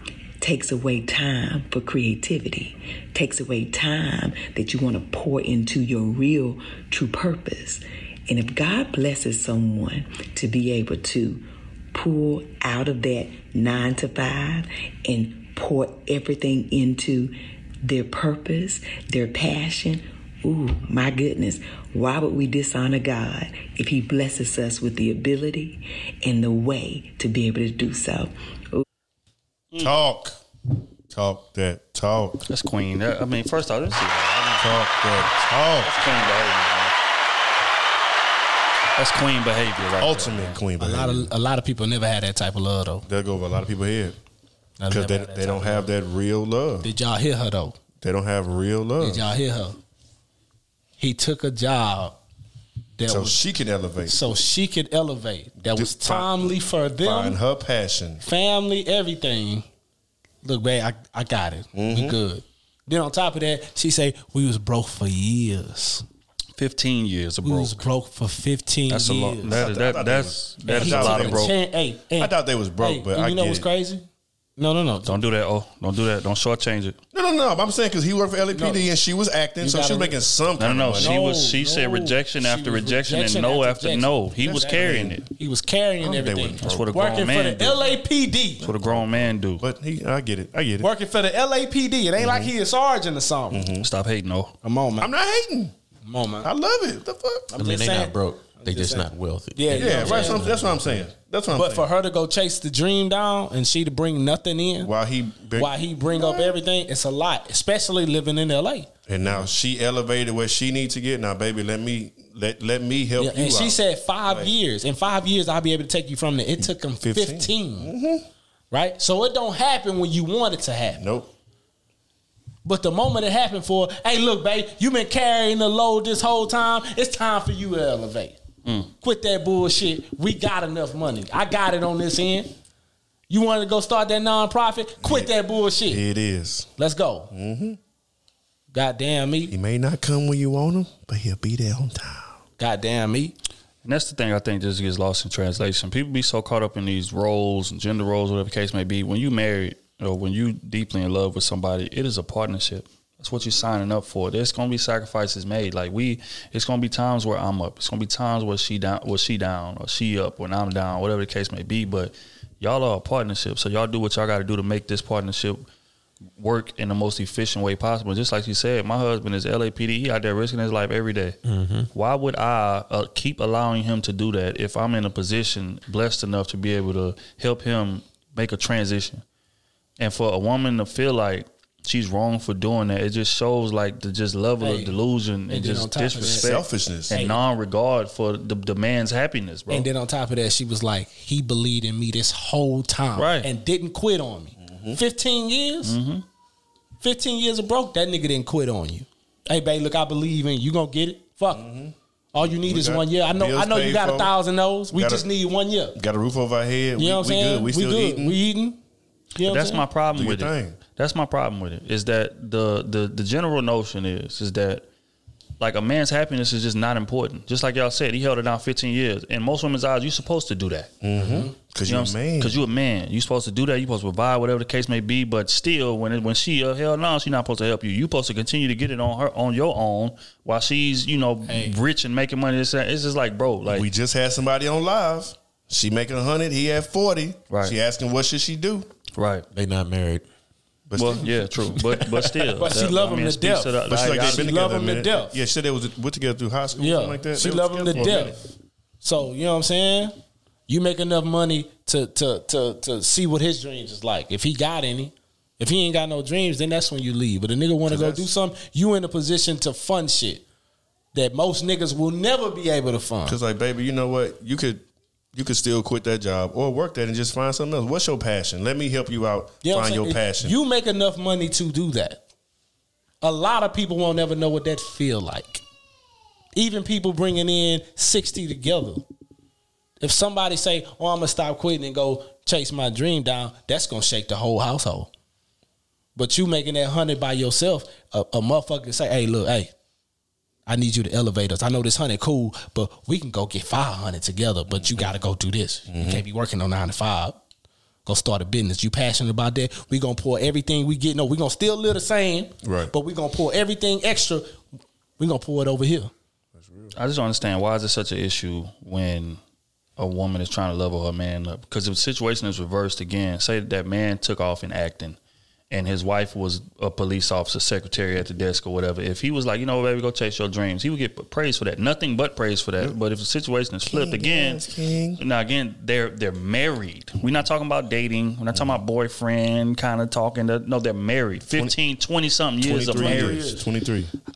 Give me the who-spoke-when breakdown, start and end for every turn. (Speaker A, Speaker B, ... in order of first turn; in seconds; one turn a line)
Speaker A: 0.4-28.8
Speaker B: 29.8-30.4
Speaker B: 31.1-32.4
Speaker C: 32.5-34.8
Speaker B: 34.6-36.0
Speaker C: 35.7-36.9
Speaker C: 39.0-40.6
Speaker B: 40.0-41.3
Speaker D: 40.8-43.1
Speaker B: 43.1-44.2
Speaker D: 44.8-45.9
Speaker B: 44.9-46.9
Speaker D: 46.8-47.8
Speaker B: 48.0-49.3
Speaker D: 49.0-49.8
Speaker D: 51.0-52.2
Speaker D: 53.0-53.4
Speaker B: 53.1-54.2
Speaker D: 54.1-57.4
Speaker B: 55.7-58.2
Speaker D: 58.2-59.7
Speaker D: 60.4-66.0
Speaker B: 61.7-62.2
Speaker C: 66.6-67.8
Speaker D: 67.4-69.7
Speaker B: 68.9-71.5
Speaker C: 69.4-71.5
Speaker D: 70.7-74.1
Speaker B: 72.2-73.7
Speaker D: 74.6-75.2
Speaker C: 75.1-77.0
Speaker B: 77.1-81.2
Speaker D: 78.5-78.8
Speaker D: 79.6-80.2
Speaker C: 80.6-85.3
Speaker D: 81.0-88.7
Speaker B: 84.4-85.2
Speaker B: 86.0-86.9
Speaker C: 86.6-87.9
Speaker B: 88.6-90.9
Speaker C: 88.6-89.6
Speaker D: 90.8-93.7
Speaker B: 92.2-92.5
Speaker B: 93.5-93.9
Speaker C: 93.8-94.5
Speaker D: 94.6-95.1
Speaker B: 95.0-95.7
Speaker D: 96.0-96.5
Speaker B: 96.4-97.5
Speaker D: 97.5-101.0
Speaker E: 97.5-100.4
Speaker B: 99.7-101.9
Speaker D: 101.5-104.9
Speaker B: 104.8-106.5
Speaker D: 105.6-108.9
Speaker B: 109.1-114.5
Speaker D: 113.2-117.9
Speaker B: 116.6-118.3
Speaker D: 118.7-121.0
Speaker B: 121.0-121.3
Speaker D: 122.7-128.4
Speaker D: 129.0-132.5
Speaker D: 133.3-136.0
Speaker B: 135.0-135.3
Speaker B: 135.9-136.7
Speaker D: 136.8-137.3
Speaker B: 137.3-137.8
Speaker D: 138.7-139.5
Speaker B: 139.5-142.4
Speaker D: 142.6-143.4
Speaker C: 143.8-165.7
Speaker C: 166.4-171.4
Speaker E: 171.4-171.9
Speaker C: 171.9-179.2
Speaker C: 180.0-189.9
Speaker D: 184.6-185.0
Speaker D: 185.5-186.6
Speaker B: 186.2-187.2
Speaker D: 187.1-187.4
Speaker D: 189.7-196.0
Speaker C: 193.2-193.5
Speaker B: 194.6-195.0
Speaker C: 195.8-196.2
Speaker D: 197.0-201.7
Speaker B: 201.5-204.3
Speaker D: 202.3-206.0
Speaker B: 204.9-205.3
Speaker B: 205.9-208.4
Speaker D: 207.0-208.8
Speaker D: 209.4-209.8
Speaker C: 209.4-214.8
Speaker B: 210.1-210.8
Speaker C: 215.6-220.9
Speaker B: 221.0-222.6
Speaker D: 221.2-221.5
Speaker C: 221.9-233.9
Speaker D: 231.5-231.8
Speaker B: 233.7-238.9
Speaker C: 237.5-237.8
Speaker C: 239.2-239.4
Speaker E: 239.5-240.2
Speaker B: 240.9-242.5
Speaker C: 241.0-244.5
Speaker D: 242.6-245.4
Speaker B: 243.9-248.4
Speaker D: 246.8-248.5
Speaker D: 249.0-250.2
Speaker D: 250.7-260.4
Speaker B: 257.9-258.3
Speaker D: 261.1-263.4
Speaker B: 263.2-270.6
Speaker D: 269.6-272.2
Speaker D: 273.2-275.6
Speaker D: 276.6-279.0
Speaker D: 280.0-285.1
Speaker D: 286.2-289.7
Speaker D: 290.7-297.4
Speaker B: 294.7-295.1
Speaker B: 295.9-296.2
Speaker D: 298.1-304.6
Speaker B: 302.6-302.9
Speaker D: 305.2-306.1
Speaker B: 306.6-306.9
Speaker C: 306.9-309.4
Speaker C: 310.0-315.2
Speaker C: 315.7-324.6
Speaker B: 323.9-325.2
Speaker C: 325.2-333.4
Speaker B: 328.5-328.8
Speaker B: 332.6-334.1
Speaker D: 332.9-333.6